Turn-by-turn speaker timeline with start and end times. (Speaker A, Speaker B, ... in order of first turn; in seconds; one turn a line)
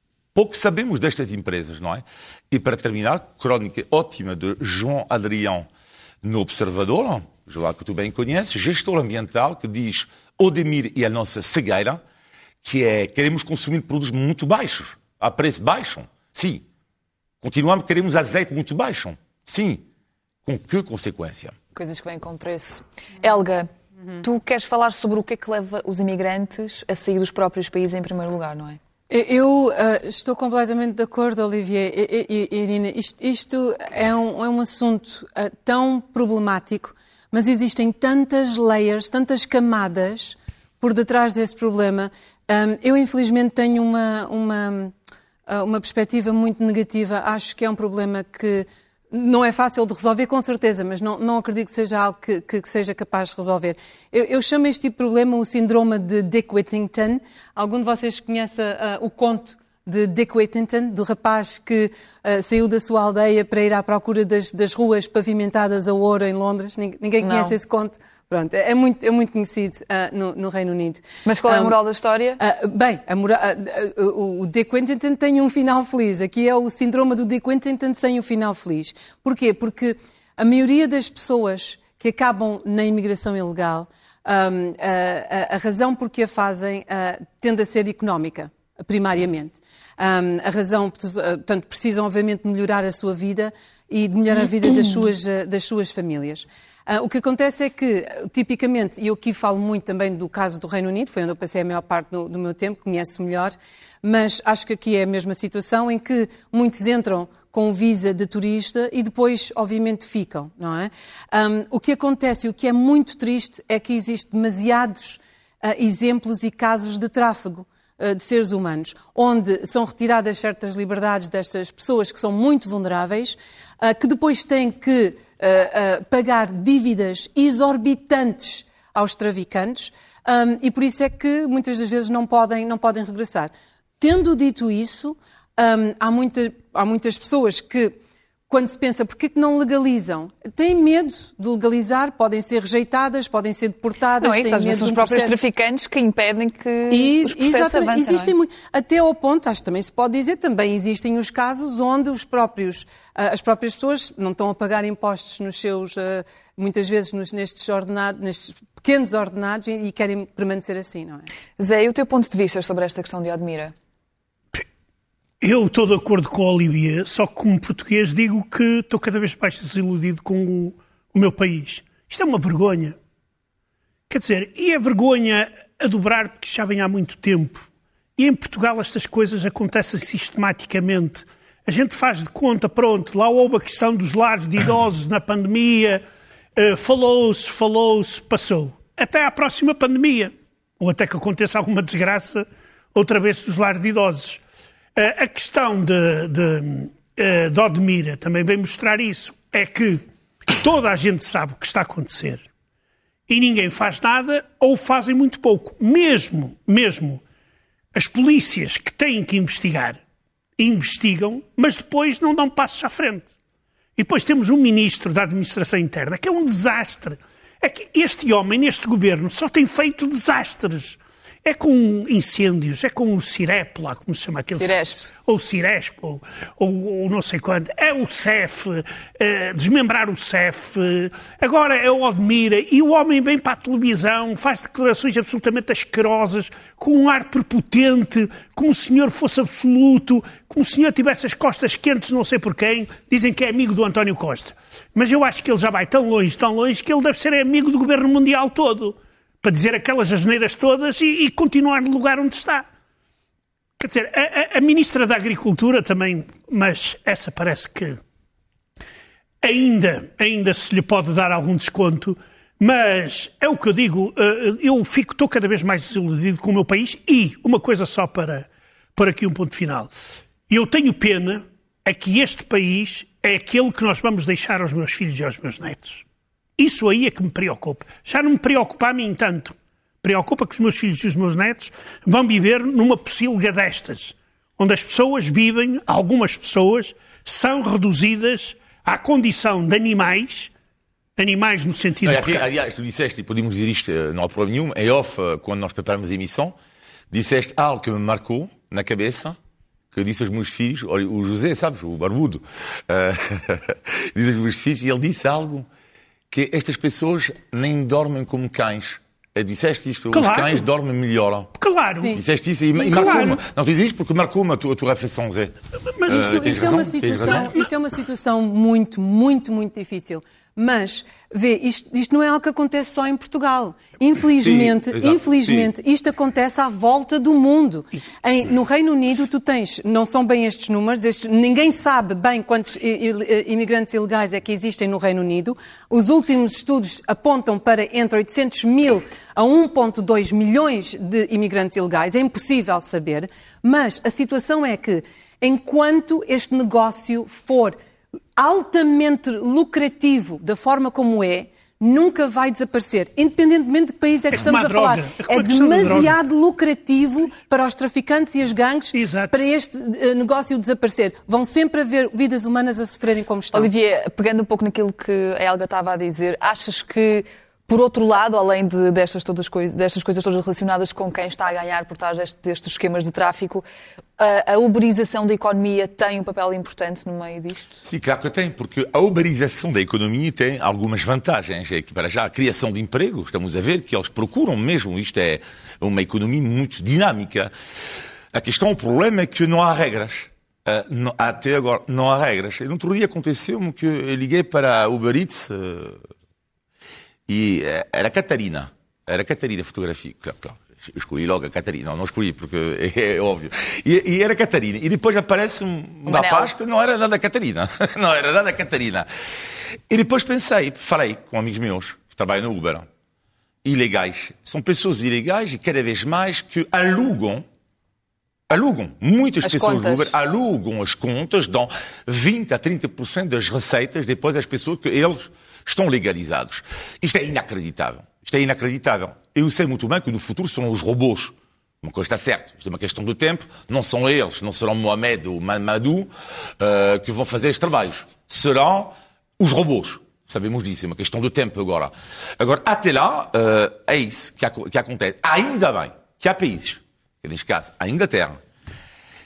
Speaker A: 0.3-5.7
Speaker A: 6.2-12.0
Speaker A: 12.6-16.6
Speaker A: 17.4-19.8
Speaker A: 20.4-21.6
Speaker B: 21.8-23.7
Speaker B: 24.2-28.8
Speaker C: 29.1-44.9
Speaker C: 45.5-71.8
Speaker B: 67.2-67.5
Speaker B: 71.2-72.4
Speaker C: 72.4-137.9
Speaker C: 138.5-145.4
Speaker B: 144.2-148.3
Speaker C: 146.9-161.3
Speaker B: 161.6-163.7
Speaker D: 165.4-173.0
Speaker D: 174.1-186.0
Speaker D: 186.6-194.4
Speaker D: 195.0-202.5
Speaker D: 203.3-207.2
Speaker D: 207.9-210.0
Speaker D: 210.6-213.3
Speaker D: 214.0-252.7
Speaker B: 224.5-225.1
Speaker D: 253.8-258.0
Speaker D: 259.4-269.9
Speaker D: 270.5-276.0
Speaker D: 276.6-290.5
Speaker D: 291.2-292.5
Speaker A: 292.0-296.6
Speaker A: 297.1-299.4
Speaker A: 299.9-305.7
Speaker A: 306.3-311.5
Speaker D: 310.1-310.6
Speaker D: 311.6-312.2
Speaker C: 311.9-312.2
Speaker A: 312.1-315.5
Speaker D: 312.8-313.4
Speaker C: 312.8-313.4
Speaker D: 315.9-317.5
Speaker C: 316.1-347.8
Speaker A: 316.1-317.5
Speaker A: 324.4-325.7
Speaker C: 348.4-363.7
Speaker D: 354.3-356.2
Speaker D: 358.9-359.3
Speaker B: 363.5-373.6
Speaker B: 374.2-377.8
Speaker A: 377.8-387.5
Speaker A: 388.3-396.1
Speaker A: 397.3-409.1
Speaker B: 406.1-406.5
Speaker A: 409.9-412.9
Speaker A: 413.6-417.4
Speaker A: 418.5-448.4
Speaker B: 419.4-420.1